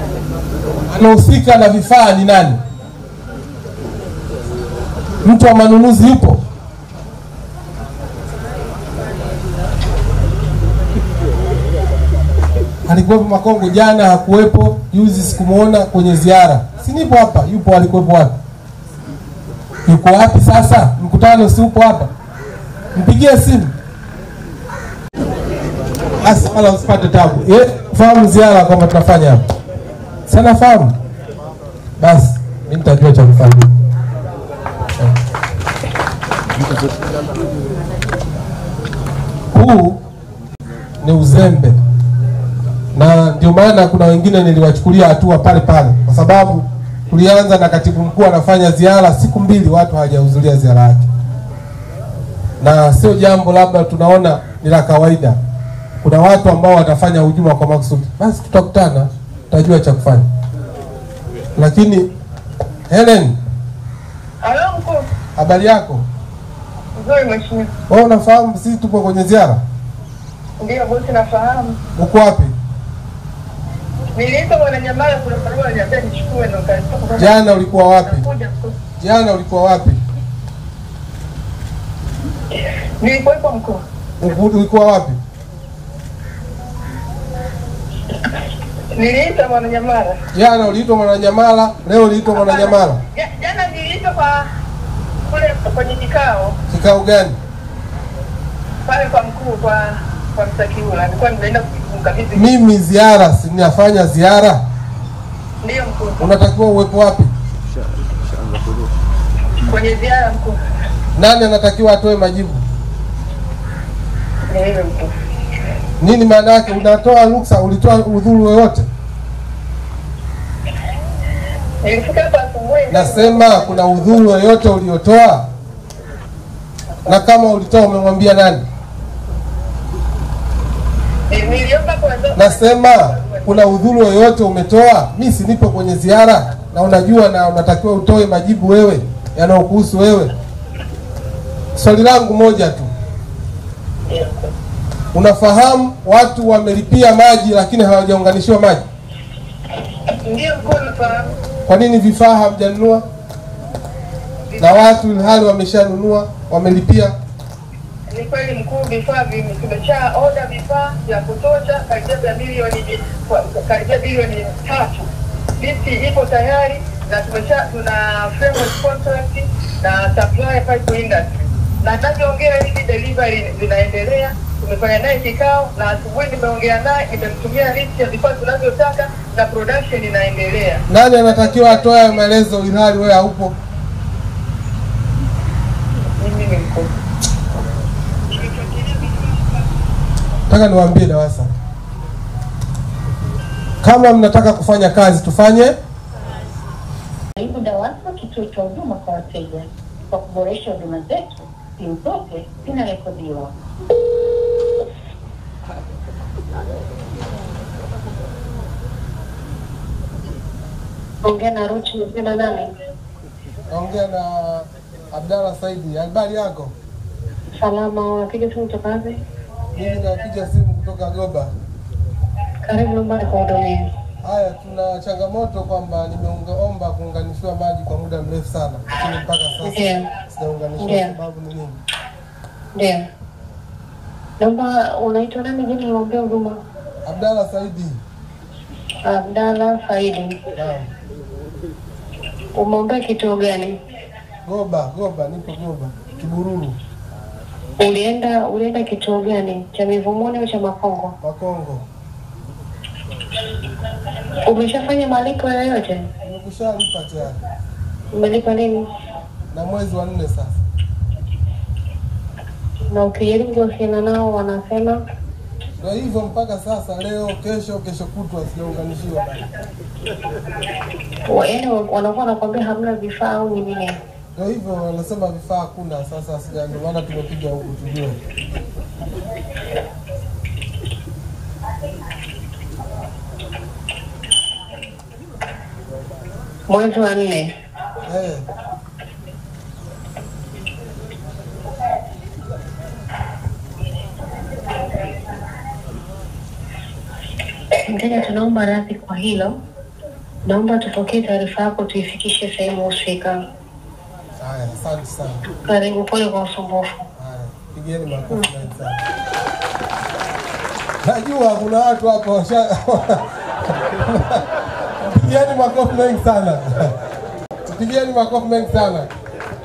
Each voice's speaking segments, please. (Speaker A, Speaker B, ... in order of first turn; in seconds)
Speaker A: 0.9-2.6, 5.2-6.4, 12.8-18.4, 19.9-22.1, 22.9-23.7, 26.2-29.4, 30.3-30.9, 32.0-33.7, 39.5-40.0, 41.0-41.8, 42.9-51.1, 52.6-55.4, 56.0-60.3, 61.5-62.1, 62.9-63.4, 65.3-66.0, 67.9-69.6, 72.0-72.5, 77.2-78.2, 79.0-80.0, 84.2-85.2, 90.3-93.0, 96.7-97.4, 102.3-104.6, 106.2-107.3, 111.1-112.6, 116.0-118.9, 122.9-125.5, 127.0-128.6, 132.3-140.3, 141.7-142.9, 145.1-148.8, 151.7-153.1, 154.6-157.2, 180.9-183.6, 190.5-191.5, 193.8-195.7, 213.7-216.7, 219.7-221.5, 224.2-231.8, 237.1-238.0, 240.5-240.9, 244.4-246.8, 251.2-251.8, 256.2-257.4, 259.5-260.6, 265.8-269.4, 274.3-278.2, 288.0-288.4, 304.4-305.4, 307.2-309.0, 311.0-314.4, 315.0-316.9, 317.7-319.1
Speaker B: 64.4-65.1, 67.0-67.7, 70.6-71.8, 74.2-77.4, 78.0-78.8, 83.0-83.8, 88.9-90.2, 92.4-94.5, 95.3-96.6, 98.8-102.5, 105.6-106.3, 109.7-110.6, 114.5-115.1, 121.8-123.9, 131.3-133.6, 144.1-144.5, 150.2-151.3, 154.5-154.9, 158.1-180.8, 186.2-186.9, 188.3-189.3
Speaker C: 211.2-212.7, 217.6-219.2, 222.6-223.8, 229.6-230.1, 230.8-231.1, 232.8-233.0, 234.4-236.6, 239.1-240.3, 242.6-243.7, 247.8-251.1, 254.4-256.0, 258.1-258.8, 262.9-265.0, 271.3-273.9, 286.7-287.5, 297.9-299.5, 300.4-303.4, 305.6-307.0